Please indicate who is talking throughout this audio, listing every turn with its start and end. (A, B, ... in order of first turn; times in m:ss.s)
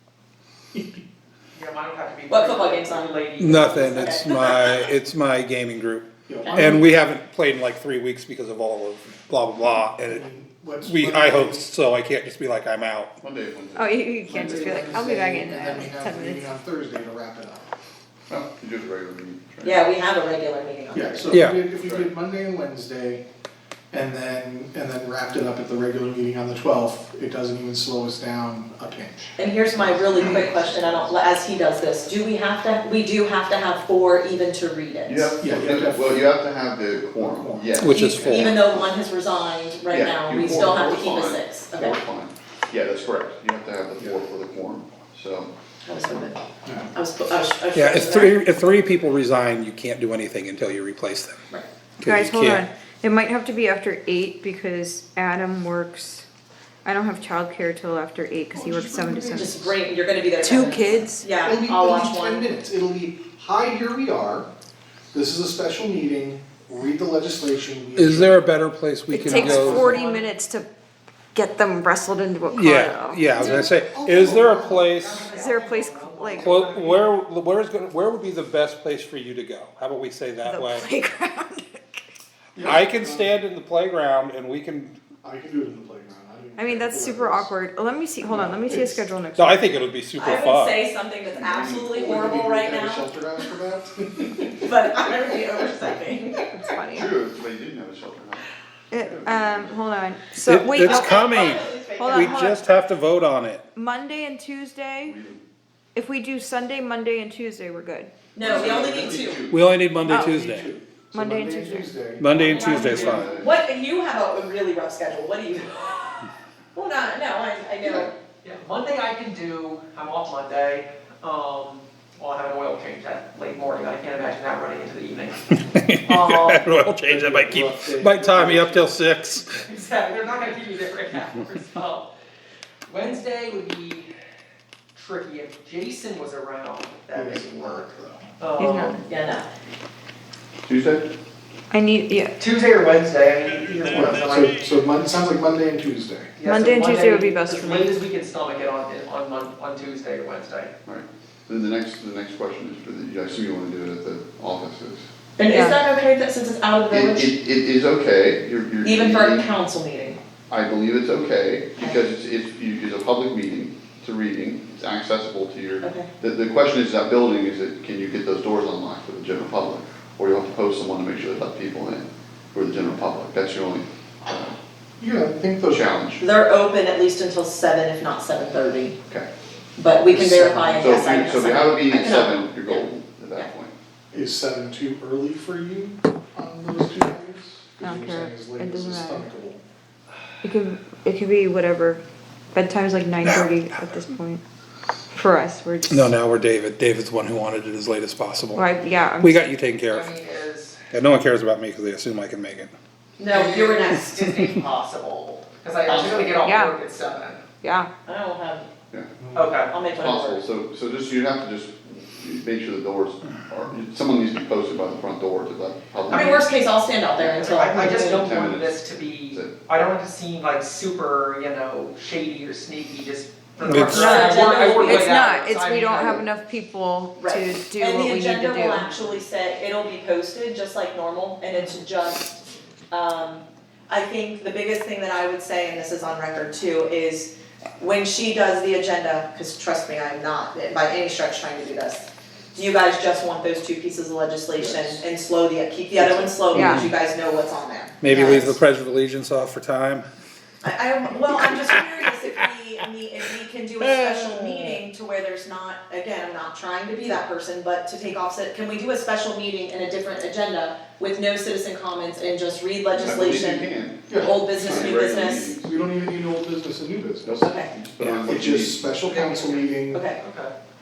0:01.5-0:04.1 A
0:02.3-0:04.8 B
0:03.4-0:10.2 C
0:06.3-0:06.9 D
0:06.4-0:06.8 B
0:10.1-0:11.7 D
0:10.8-0:13.1 C
0:13.2-0:15.0 E
0:13.7-0:16.5 F
0:14.3-0:17.7 D
0:18.3-0:19.8 E
0:19.6-0:21.3 B
0:20.9-0:23.2 D
0:21.3-0:21.6 C
0:21.8-0:22.1 E
0:23.9-0:31.1 D
0:29.4-0:35.4 B
0:30.2-0:30.4 E
0:35.1-0:38.9 E
0:35.4-0:36.3 D
0:37.0-0:38.2 D
0:37.8-0:38.5 C
0:38.0-0:42.0 B
0:39.9-0:45.5 E
0:45.8-0:46.4 B
0:46.6-0:46.9 D
0:46.9-0:48.4 B
0:47.7-0:51.4 C
0:52.0-0:52.6 C
0:52.0-0:56.2 F
0:56.8-0:59.5 F
0:58.5-0:59.8 D
0:59.3-1:02.4 B
1:00.4-1:01.3 F
1:01.4-1:04.5 D
1:05.1-1:08.4 D
1:08.0-1:09.9 C
1:09.1-1:10.7 F
1:09.2-1:10.2 A
1:09.2-1:10.0 D
1:11.3-1:13.6 F
1:12.5-1:15.3 C
1:13.3-1:15.1 D
1:15.0-1:17.1 A
1:15.3-1:16.5 F
1:16.3-1:20.9 C
1:20.4-1:22.0 F
1:22.6-1:23.4 D
1:22.6-1:25.0 C
1:25.2-1:27.5 D
1:26.6-1:29.7 F
1:28.2-1:29.0 D
1:29.4-1:30.8 C
1:30.2-1:33.0 B
1:31.4-1:32.3 E
1:31.9-1:35.2 D
1:34.6-1:36.5 B
1:36.5-1:37.1 F
1:36.9-1:38.4 E
1:38.9-1:42.6 F
1:39.0-1:39.7 E
1:40.4-1:43.6 C
1:40.8-1:42.5 B
1:43.7-1:45.2 F
1:45.0-1:45.4 E
1:45.9-1:48.1 F
1:48.3-1:49.4 B
1:48.4-1:49.7 E
1:48.4-1:49.2 D
1:49.5-1:50.7 C
1:50.0-1:52.7 D
1:50.0-1:50.3 F
1:51.1-1:51.9 F
1:52.2-1:53.3 C
1:52.5-1:58.1 B
1:52.5-1:53.2 A
1:52.7-1:53.5 E
1:58.4-2:06.7 A
2:05.6-2:09.6 C
2:07.0-2:09.0 D
2:09.7-2:12.1 A
2:12.8-2:14.1 A
2:14.9-2:19.0 A
2:17.1-2:18.3 D
2:18.6-2:19.0 F
2:19.0-2:19.5 B
2:20.7-2:21.1 E
2:21.7-2:22.3 F
2:22.4-2:24.5 A
2:23.9-2:26.3 D
2:26.4-2:30.7 A
2:26.4-2:27.9 F
2:30.8-2:35.0 E
2:35.4-2:37.3 B
2:35.5-2:35.8 F
2:36.9-2:39.4 E
2:38.8-2:40.2 B
2:40.5-2:54.6 E
2:45.8-2:46.1 B
2:55.0-2:56.2 D
2:55.7-2:56.2 E
2:56.2-2:59.0 B
2:59.8-3:03.5 B
3:00.1-3:01.0 D
3:00.8-3:03.7 E
3:04.1-3:09.6 D
3:07.8-3:09.2 F
3:10.4-3:12.0 F
3:12.5-3:14.4 F
3:13.2-3:14.0 C
3:15.1-3:16.1 F
3:15.9-3:20.1 C
3:18.5-3:19.5 F
3:19.9-3:20.8 A
3:20.9-3:22.7 C
3:23.2-3:24.2 B
3:23.3-3:27.4 A
3:25.9-3:26.4 E
3:26.4-3:26.8 F
3:27.6-3:27.9 F
3:28.0-3:28.7 B
3:29.2-3:29.5 D
3:29.3-3:29.8 A
3:29.7-3:30.4 B
3:30.0-3:36.5 E
3:36.1-3:36.4 A
3:36.1-3:38.3 B
3:37.2-3:45.8 A
3:38.2-3:39.5 E
3:43.6-3:44.2 C
3:43.9-3:48.9 F
3:43.9-3:46.2 B
3:47.2-3:52.4 B
3:52.9-4:08.6 B
4:06.5-4:06.9 F
4:06.5-4:06.9 C
4:08.0-4:10.0 C
4:08.1-4:08.4 F
4:10.6-4:25.5 B
4:13.8-4:14.7 C
4:23.0-4:25.7 E
4:24.1-4:24.9 D
4:25.5-4:27.5 D
4:27.2-4:28.9 E
4:27.4-4:27.7 B
4:28.2-4:30.1 D
4:29.0-4:30.5 A
4:29.9-4:30.2 B